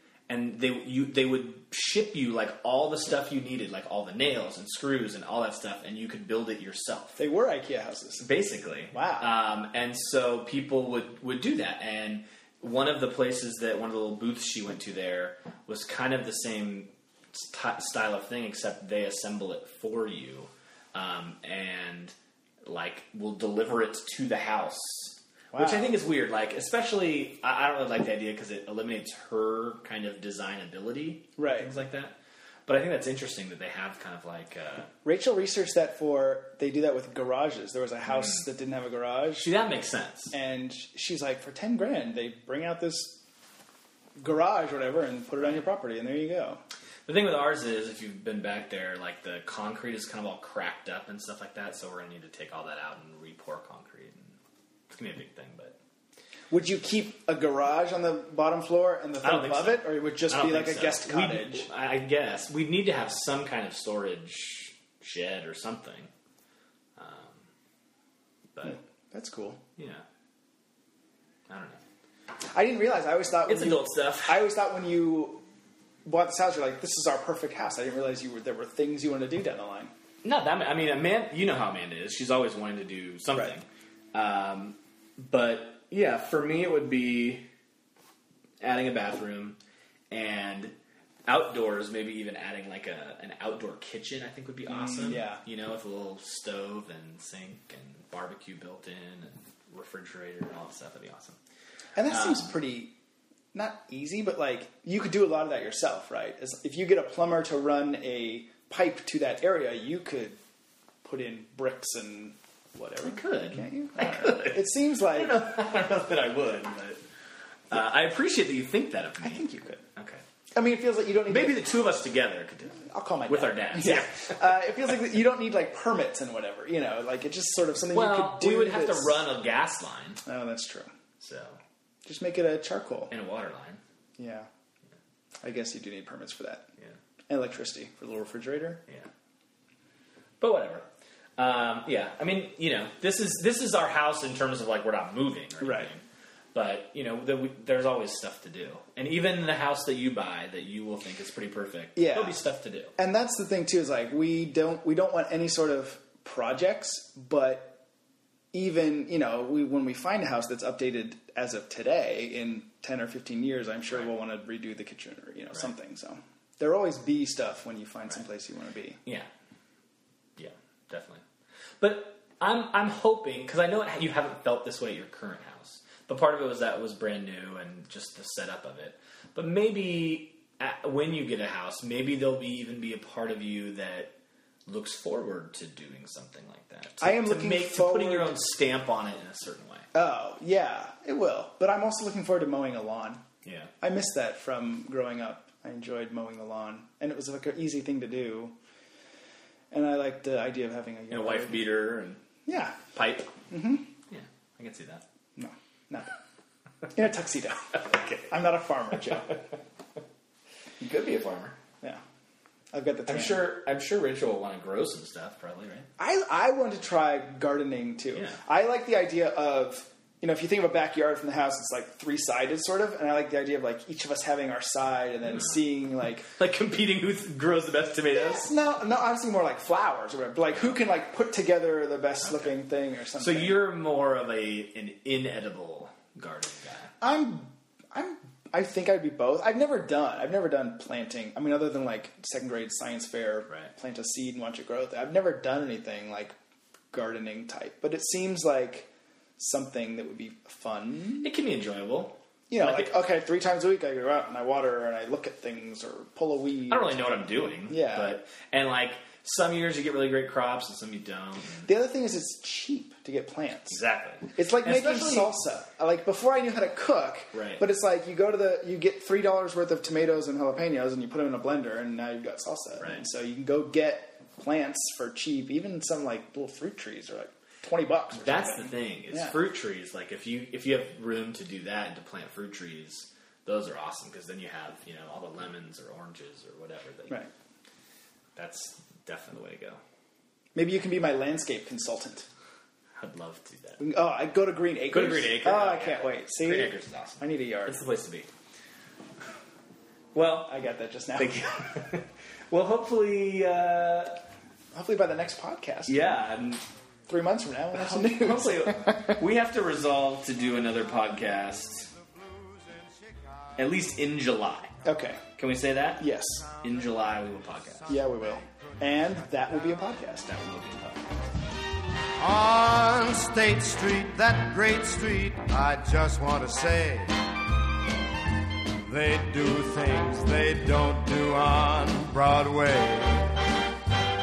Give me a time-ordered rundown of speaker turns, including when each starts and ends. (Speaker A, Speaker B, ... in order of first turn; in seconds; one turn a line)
Speaker A: 0.3-7.2
Speaker B: 7.2-8.3
Speaker A: 8.2-32.1
Speaker B: 8.9-9.3
Speaker B: 25.5-26.0
Speaker B: 31.4-31.7
Speaker A: 32.7-34.9
Speaker B: 35.0-39.5
Speaker A: 39.4-40.3
Speaker B: 40.3-43.2
Speaker B: 44.2-46.6
Speaker A: 47.1-54.4
Speaker A: 54.9-55.8
Speaker B: 56.5-61.7
Speaker A: 59.2-66.1
Speaker A: 67.0-67.4
Speaker A: 68.5-68.8
Speaker B: 68.6-69.6
Speaker A: 69.8-70.0
Speaker A: 71.5-71.8
Speaker B: 72.5-75.4
Speaker A: 73.5-74.4
Speaker B: 76.0-79.9
Speaker A: 80.2-87.5
Speaker A: 88.6-89.6
Speaker A: 90.1-90.7
Speaker A: 91.3-101.4
Speaker B: 94.7-95.4
Speaker B: 102.0-102.9
Speaker A: 102.1-102.5
Speaker B: 103.5-110.4
Speaker B: 111.0-115.4
Speaker A: 113.0-117.0
Speaker A: 117.7-119.4
Speaker B: 119.2-119.8
Speaker A: 120.0-120.2
Speaker B: 120.5-121.6
Speaker A: 121.3-124.4
Speaker B: 122.8-129.3
Speaker A: 127.9-130.2
Speaker B: 130.2-130.9
Speaker A: 131.2-131.6
Speaker B: 132.1-133.1
Speaker A: 133.1-133.8
Speaker B: 134.2-134.5
Speaker B: 135.4-136.7
Speaker B: 137.3-138.8
Speaker A: 140.4-140.9
Speaker A: 141.4-146.0
Speaker B: 145.6-145.9
Speaker A: 146.5-152.9
Speaker B: 151.9-152.4
Speaker B: 153.0-157.8
Speaker B: 158.5-169.0
Speaker A: 170.4-171.2
Speaker A: 171.8-184.1
Speaker A: 184.7-189.9
Speaker B: 187.0-188.4
Speaker B: 189.9-193.2
Speaker A: 193.4-193.7
Speaker B: 193.8-198.6
Speaker B: 199.7-201.7
Speaker A: 201.1-202.2
Speaker B: 202.4-202.8
Speaker A: 202.9-203.4
Speaker B: 203.5-203.9
Speaker A: 204.1-205.0
Speaker B: 205.4-206.1
Speaker B: 206.9-209.4
Speaker A: 207.9-208.2
Speaker A: 210.8-211.6
Speaker B: 212.7-213.5
Speaker A: 213.1-215.9
Speaker B: 216.0-226.3
Speaker A: 218.1-218.4
Speaker A: 226.3-228.5
Speaker B: 228.1-233.6
Speaker A: 233.2-236.9
Speaker B: 237.0-246.3
Speaker B: 246.9-251.3
Speaker A: 251.2-253.0
Speaker B: 252.5-258.1
Speaker A: 256.7-261.7
Speaker B: 261.6-263.8
Speaker A: 263.7-265.3
Speaker B: 264.4-279.3
Speaker A: 267.3-267.6
Speaker A: 278.1-287.3
Speaker A: 288.4-289.8
Speaker B: 290.6-292.3
Speaker A: 293.0-293.8
Speaker B: 293.8-297.8
Speaker A: 294.9-298.3
Speaker A: 300.1-300.6
Speaker B: 300.5-301.4
Speaker A: 301.1-304.2
Speaker B: 304.7-306.2
Speaker A: 305.9-306.6
Speaker B: 307.1-309.2
Speaker A: 307.7-311.9
Speaker C: 311.9-313.5
Speaker A: 313.6-314.7
Speaker B: 314.8-315.2
Speaker A: 315.4-317.9
Speaker B: 316.0-316.4
Speaker C: 316.5-319.4
Speaker B: 317.9-320.3
Speaker A: 320.2-321.1
Speaker C: 322.1-327.4
Speaker C: 328.7-333.5